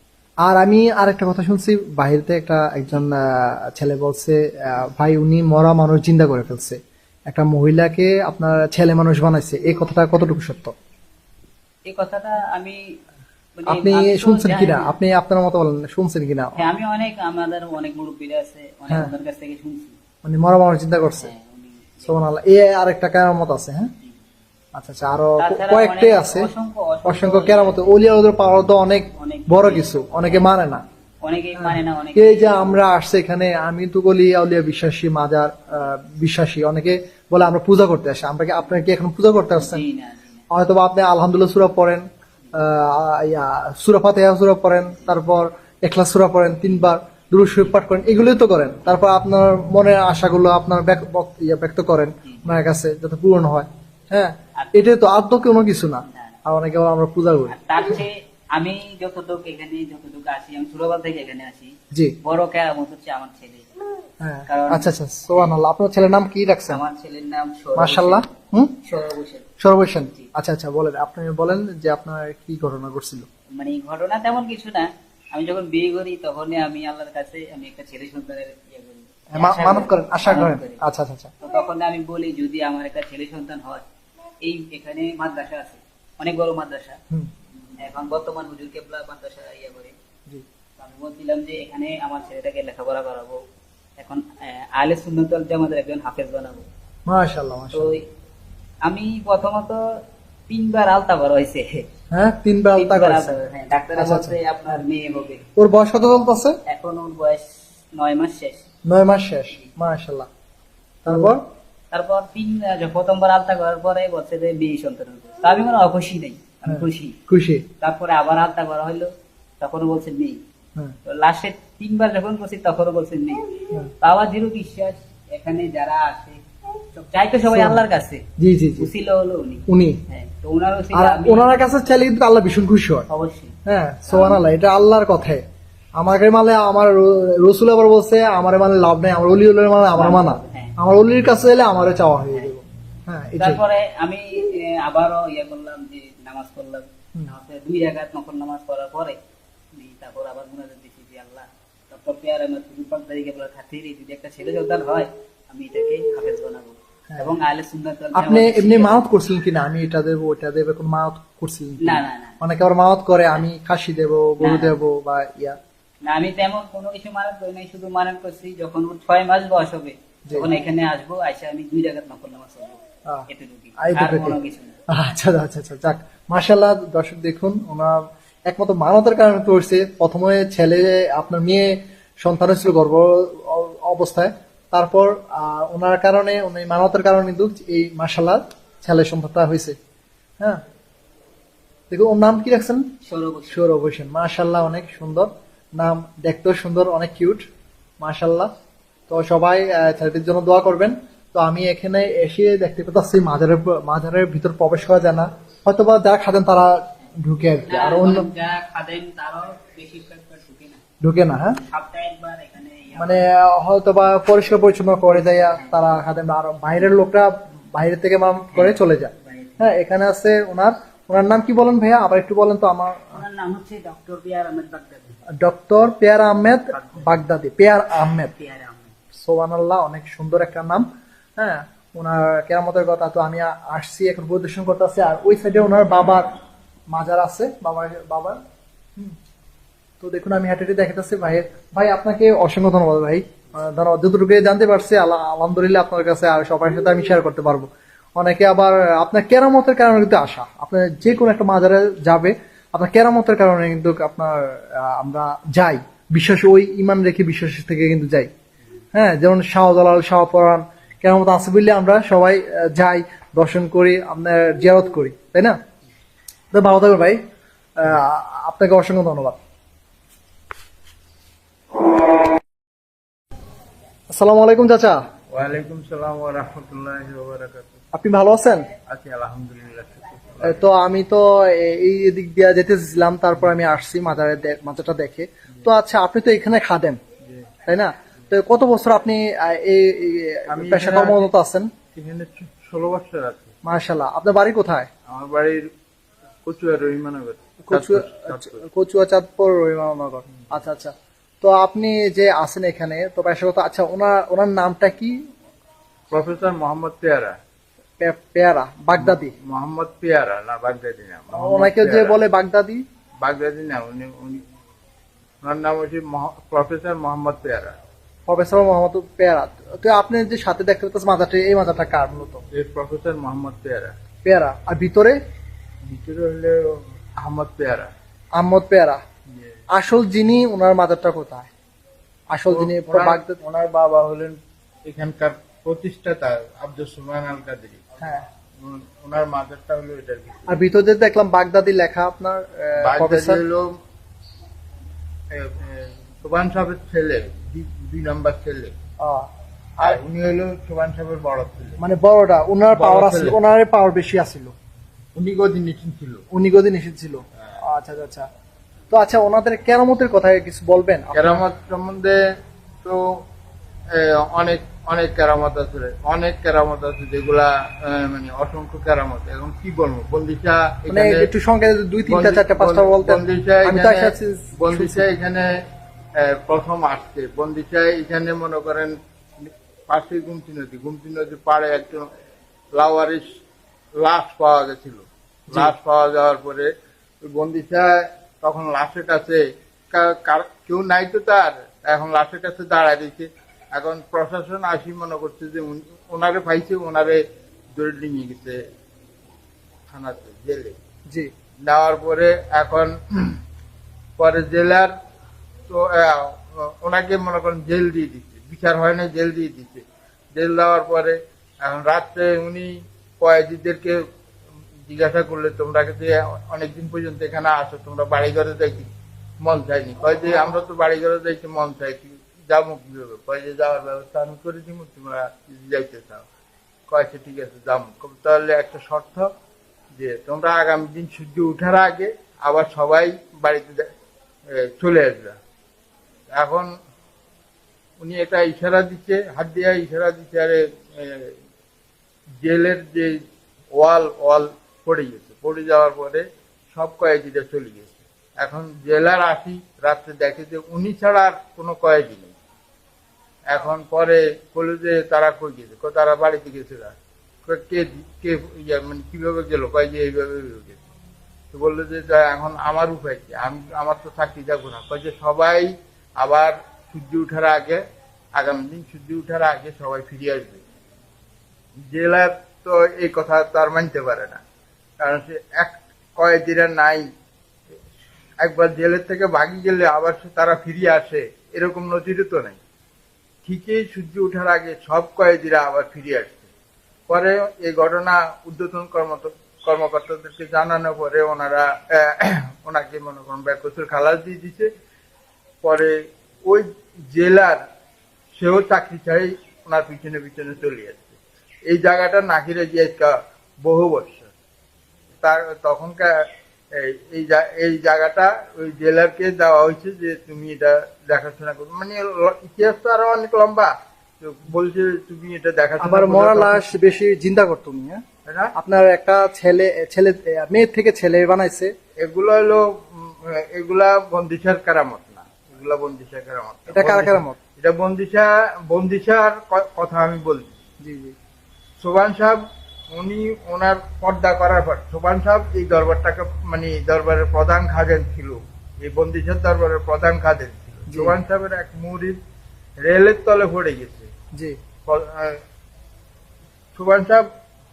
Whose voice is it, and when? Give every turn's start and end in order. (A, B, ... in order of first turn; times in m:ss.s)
0:00.4-0:10.7 A
0:11.8-0:12.8 B
0:13.6-0:14.9 B
0:13.7-0:16.6 A
0:16.6-0:20.0 B
0:20.2-0:21.3 A
0:21.1-0:22.2 B
0:22.0-0:23.9 A
0:24.7-0:26.5 A
0:25.4-0:27.9 B
0:27.0-0:30.8 A
0:29.2-0:30.5 B
0:31.2-0:32.8 B
0:31.6-0:39.8 A
0:39.5-0:40.5 B
0:40.5-0:58.0 A
0:52.2-0:52.5 B
0:54.6-0:54.9 B
0:56.0-0:56.4 B
0:57.5-1:03.7 B
1:04.2-1:06.8 A
1:04.5-1:05.5 B
1:06.7-1:08.2 B
1:07.8-1:08.8 A
1:08.8-1:09.5 B
1:09.6-1:13.3 A
1:13.6-1:20.8 B
1:19.3-1:21.3 A
1:21.4-1:23.8 B
1:24.4-1:27.0 B
1:27.8-1:29.9 B
1:30.8-1:33.4 B
1:34.0-1:36.6 B
1:37.0-1:38.0 A
1:37.7-1:38.0 B
1:38.8-1:41.8 B
1:42.1-1:43.4 A
1:42.7-1:45.4 B
1:44.0-1:44.8 A
1:45.6-1:46.6 A
1:46.7-1:48.6 B
1:48.8-1:50.3 A
1:51.0-1:51.4 A
1:51.1-1:51.3 B
1:51.9-1:57.2 B
1:56.7-1:57.6 A
1:57.8-2:00.4 B
2:01.0-2:06.4 B
2:06.9-2:08.2 B
2:07.5-2:07.8 A
2:08.4-2:08.9 A
2:08.8-2:11.6 B
2:09.7-2:10.0 A
2:10.9-2:13.1 A
2:13.1-2:13.6 B
2:13.6-2:15.4 A
2:14.1-2:14.4 B
2:16.0-2:23.6 A
2:20.0-2:20.8 B
2:23.4-2:29.2 B
2:29.7-2:39.0 B
2:38.1-2:45.6 A
2:41.8-2:42.4 B
2:44.4-2:44.7 B
2:46.0-2:54.8 B
2:53.8-2:54.4 A
2:54.9-3:09.8 A
3:11.9-3:12.9 A
3:13.0-3:13.7 B
3:13.5-3:17.5 A
3:18.0-3:18.5 A
3:19.1-3:28.3 A
3:27.6-3:30.8 B
3:31.0-3:31.6 A
3:31.6-3:33.2 B
3:33.0-3:43.2 A
3:35.1-3:36.0 B
3:38.5-3:39.7 B
3:43.1-3:45.2 B
3:45.4-3:48.3 A
3:46.7-3:47.2 B
3:48.3-3:49.0 B
3:49.1-3:56.3 A
3:56.9-3:58.4 A
4:00.0-4:18.3 A
4:18.9-4:25.6 A
4:26.5-4:27.2 A
4:27.8-4:29.4 A
4:34.1-4:35.0 A
4:35.3-4:37.8 C
4:37.9-4:38.7 A
4:38.9-4:40.6 C
4:40.4-4:47.0 A
4:47.2-4:47.5 C
4:47.6-4:51.7 A
4:50.5-4:51.3 C
4:51.9-4:53.5 C
4:53.6-4:54.9 A
4:55.1-4:55.7 C
4:56.4-4:58.6 C
4:57.6-5:05.2 A
5:06.1-5:07.4 C
5:08.0-5:09.3 A
5:09.0-5:12.2 C
5:11.3-5:12.8 A
5:13.2-5:14.4 C
5:15.4-5:17.8 C
5:18.3-5:22.4 A
5:22.5-5:23.9 C
5:24.2-5:25.2 A
5:25.8-5:27.9 C
5:28.4-5:29.0 A
5:29.3-5:29.6 C
5:29.7-5:31.5 A
5:32.3-5:33.4 A
5:32.5-5:37.8 C
5:38.0-5:38.3 A
5:38.6-5:40.6 C
5:40.5-5:43.4 A
5:42.8-5:43.8 C
5:45.3-5:48.8 C
5:49.0-5:50.0 A
5:49.8-5:51.8 C
5:51.8-5:54.5 A
5:52.7-5:53.4 C
5:55.2-5:56.2 C
5:56.3-5:58.3 A
5:58.9-6:01.4 A
6:01.1-6:02.2 C
6:02.8-6:03.2 C
6:03.9-6:11.3 C
6:10.9-6:15.0 A
6:12.1-6:15.5 C
6:16.2-6:22.1 C
6:22.7-6:23.3 C
6:24.0-6:26.7 C
6:27.2-6:37.2 C
6:37.7-6:38.6 C
6:39.9-6:40.8 C
6:41.6-6:43.4 C
6:44.2-6:44.9 C
6:45.7-6:54.0 C
6:54.9-6:58.9 C
6:59.4-7:06.2 C
7:06.9-7:09.3 C
7:09.9-7:13.9 C
7:14.5-7:15.4 C
7:16.3-7:16.7 C
7:18.0-7:21.3 C
7:22.4-7:32.3 C
7:33.5-7:36.9 C
7:37.4-7:40.8 C
7:41.5-7:47.8 C
7:48.3-7:50.6 C
7:51.9-7:54.4 C
7:55.0-7:57.1 C
7:58.4-8:02.6 C
8:03.4-8:06.5 C
8:07.1-8:14.7 C
8:15.6-8:17.6 C
8:18.4-8:21.2 C
8:21.7-8:24.3 C
8:25.2-8:36.7 C
8:35.8-8:38.0 A
8:38.2-8:38.5 C
8:38.6-8:41.7 A
8:42.0-8:50.5 C
8:46.7-8:47.4 A
8:50.8-8:51.1 A
8:51.8-9:02.2 C
9:00.9-9:01.1 A
9:02.8-9:04.1 C
9:04.9-9:05.4 C
9:06.7-9:07.3 C